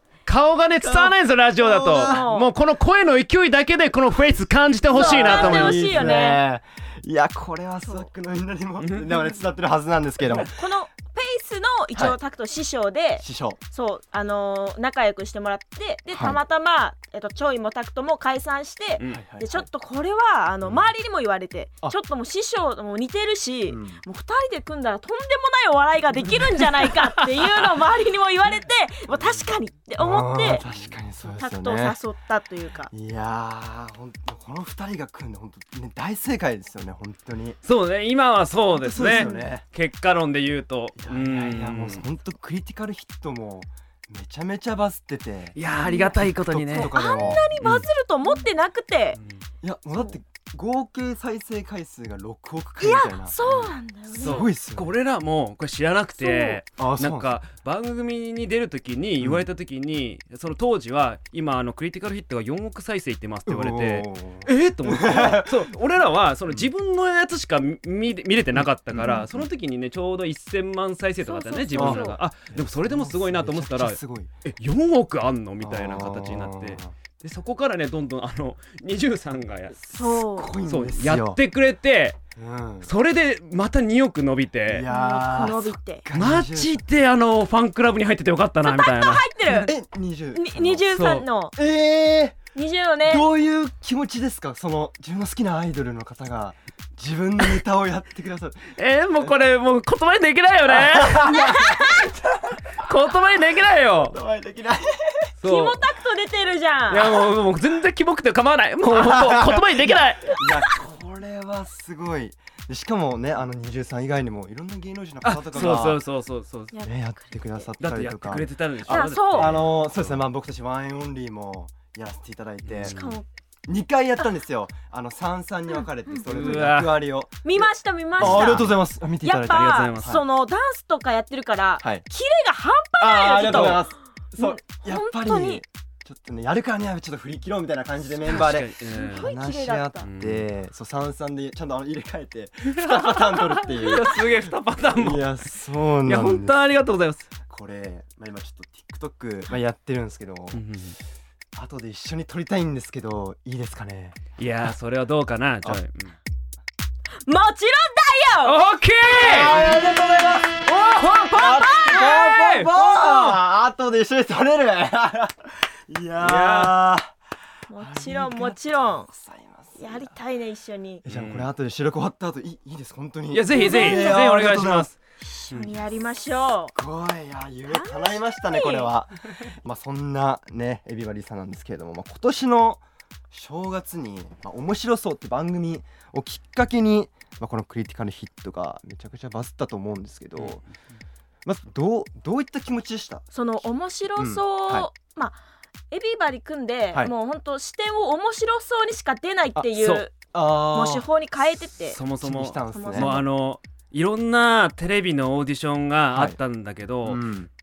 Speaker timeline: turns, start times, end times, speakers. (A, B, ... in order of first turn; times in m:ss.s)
0:00.3-0:06.1 A
0:00.8-0:02.3 B
0:01.9-0:02.5 C
0:04.9-0:06.4 C
0:04.9-0:10.6 B
0:10.3-0:30.6 C
0:13.2-0:13.6 B
0:16.1-0:16.4 B
0:19.0-0:19.3 A
0:19.1-0:19.7 B
0:23.7-0:24.0 B
0:26.6-0:27.8 A
0:30.0-0:32.0 B
0:30.6-0:30.9 A
0:31.3-0:32.9 C
0:32.9-0:37.6 B
0:37.6-0:42.0 A
0:38.8-0:39.6 B
0:39.1-0:39.5 C
0:41.0-0:45.6 B
0:45.6-0:47.6 A
0:45.8-0:49.2 C
0:46.5-0:47.9 B
0:49.6-0:54.9 B
0:49.9-0:50.2 C
0:52.8-0:54.5 C
0:53.4-1:19.8 A
0:56.2-0:56.6 C
0:56.8-0:57.4 B
0:59.2-0:59.5 B
1:03.5-1:05.7 B
1:08.6-1:09.5 B
1:11.2-1:12.2 C
1:11.7-1:14.3 B
1:15.6-1:16.9 B
1:19.7-1:21.4 B
1:20.0-1:20.5 C
1:20.5-1:22.2 A
1:22.4-1:22.9 B
1:22.8-1:24.9 A
1:24.6-1:26.8 B
1:24.9-1:26.1 C
1:26.1-1:29.6 A
1:28.6-1:29.7 C
1:29.6-1:30.9 B
1:30.3-1:31.6 C
1:30.9-1:31.3 A
1:31.6-1:32.4 B
1:32.5-1:33.3 C
1:33.0-1:39.3 B
1:38.8-1:41.6 A
1:40.7-1:42.8 B
1:41.3-1:42.1 C
1:42.8-1:44.2 A
1:44.1-1:45.3 B
1:45.4-1:45.8 A
1:45.4-1:47.2 C
1:46.9-1:50.4 A
1:48.9-1:56.0 B
1:55.2-1:56.7 A
1:56.7-1:57.7 C
1:56.8-2:03.0 B
1:57.8-2:00.2 A
1:58.9-1:59.6 C
2:02.7-2:03.2 A
2:02.8-2:03.2 C
2:03.7-2:10.2 B
2:06.1-2:06.5 C
2:06.2-2:07.0 A
2:07.4-2:15.6 C
2:08.2-2:08.7 A
2:09.5-2:10.2 A
2:11.8-2:12.0 B
2:13.0-2:24.2 B
2:13.4-2:13.7 A
2:18.2-2:19.3 A
2:18.9-2:20.1 C
2:20.0-2:20.5 A
2:22.8-2:25.4 A
2:24.9-2:26.6 B
2:26.0-2:27.3 A
2:27.4-2:30.6 B
2:30.5-2:31.0 A
2:31.6-2:34.2 B
2:34.4-2:36.2 A
2:37.2-2:39.6 C
2:38.4-2:39.7 A
2:39.1-2:40.6 B
2:40.6-2:41.5 A
2:41.2-2:43.3 C
2:41.3-2:47.1 B
2:42.2-2:42.7 A
2:46.2-2:46.8 A
2:47.7-2:49.1 C
2:47.8-2:50.1 B
2:49.8-2:51.0 C
2:51.0-2:54.9 B
2:51.1-2:51.5 A
2:53.3-2:55.0 A
2:53.5-2:54.1 C
2:55.4-2:56.7 C
2:55.5-2:55.8 A
2:56.7-3:10.6 B
2:57.7-2:58.9 C
3:10.4-3:10.6 A
3:11.4-3:13.3 B
3:13.3-3:15.4 C
3:14.2-3:14.9 B
3:15.9-3:20.1 C
3:19.7-3:20.1 A
3:20.3-3:21.1 B
3:20.7-3:22.0 C
3:21.9-3:27.2 A
3:22.2-3:23.2 B
3:22.7-3:23.3 C
3:27.0-3:27.5 B